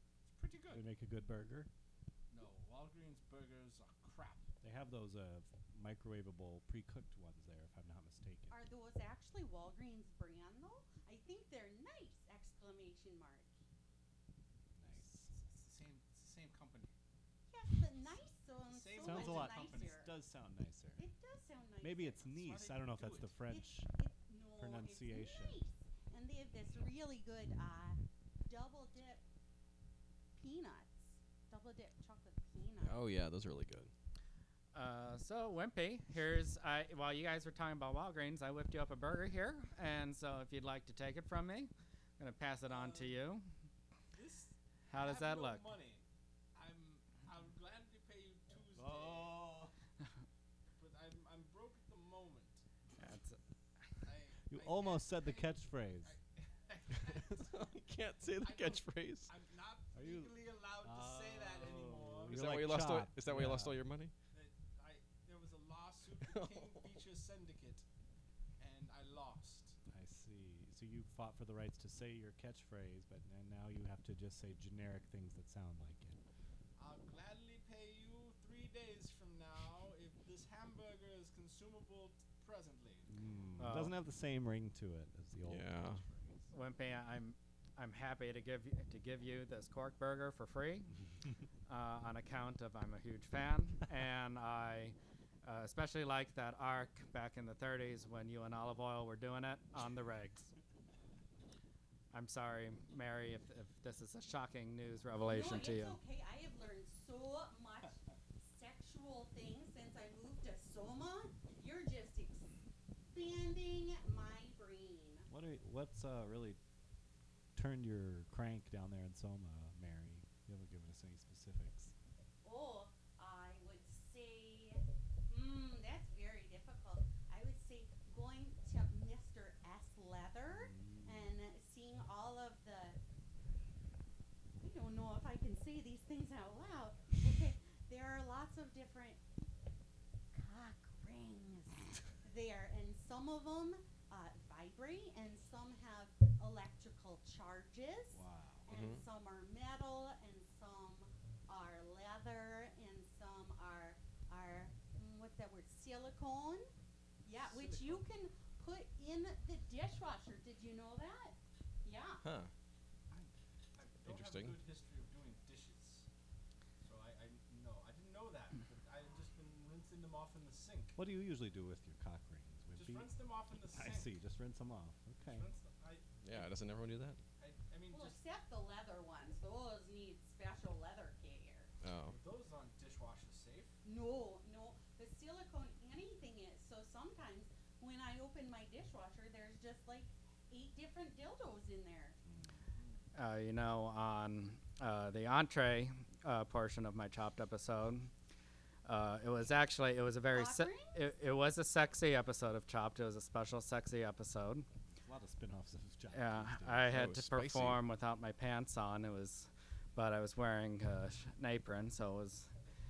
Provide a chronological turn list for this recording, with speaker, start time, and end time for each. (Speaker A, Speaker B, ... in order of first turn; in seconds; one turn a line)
Speaker A: 0.2-0.8
Speaker B: 0.7-1.7
Speaker A: 2.3-4.5
Speaker B: 4.6-8.6
Speaker C: 8.5-13.5
Speaker B: 14.8-15.3
Speaker A: 15.2-16.9
Speaker C: 17.5-20.1
Speaker A: 18.7-20.0
Speaker B: 19.0-21.0
Speaker C: 21.0-22.2
Speaker B: 21.8-23.9
Speaker A: 22.4-23.3
Speaker C: 23.5-29.2
Speaker B: 24.6-25.6
Speaker C: 30.4-33.0
Speaker D: 32.8-33.9
Speaker E: 34.7-43.5
Speaker A: 42.6-43.2
Speaker A: 44.1-49.6
Speaker E: 44.9-45.7
Speaker B: 48.7-49.7
Speaker A: 50.8-52.6
Speaker E: 53.0-53.4
Speaker A: 54.0-57.7
Speaker B: 54.5-56.1
Speaker D: 57.1-59.3
Speaker A: 58.4-62.5
Speaker B: 59.9-63.8
Speaker D: 62.3-64.1
Speaker A: 64.3-67.8
Speaker D: 66.2-67.0
Speaker A: 68.6-69.8
Speaker B: 69.9-76.2
Speaker A: 76.8-83.2
Speaker B: 83.1-85.8
Speaker E: 83.6-84.0
Speaker D: 85.4-86.0
Speaker A: 85.9-86.5
Speaker E: 86.5-90.9
Speaker E: 91.7-100.5
Speaker E: 102.1-106.0
Speaker C: 105.2-112.5
Speaker C: 113.1-115.3
Speaker B: 115.3-116.6
Speaker B: 117.5-121.9
Speaker C: 122.4-133.0
Speaker B: 130.5-131.3
Speaker C: 134.6-139.2
Speaker C: 140.3-156.7
Speaker B: 148.1-148.7
Speaker D: 148.7-149.0
Speaker C: 157.2-162.2
Speaker A: 157.4-158.0
Speaker D: 162.2-162.5
Speaker A: 163.8-166.1
Speaker D: 164.0-164.6
Speaker A: 166.8-170.9
Speaker B: 170.9-173.1
Speaker A: 172.7-174.1
Speaker B: 173.7-175.5
Speaker A: 175.2-176.1
Speaker D: 176.2-177.2
Speaker A: 177.4-178.2
Speaker C: 177.9-181.7
Speaker D: 181.8-182.2
Speaker A: 182.1-183.7
Speaker C: 183.8-192.2
Speaker A: 192.8-193.0
Speaker E: 193.1-198.1
Speaker E: 198.8-204.7
Speaker C: 200.3-201.1
Speaker B: 204.9-207.1
Speaker E: 206.1-212.5
Speaker D: 206.9-207.8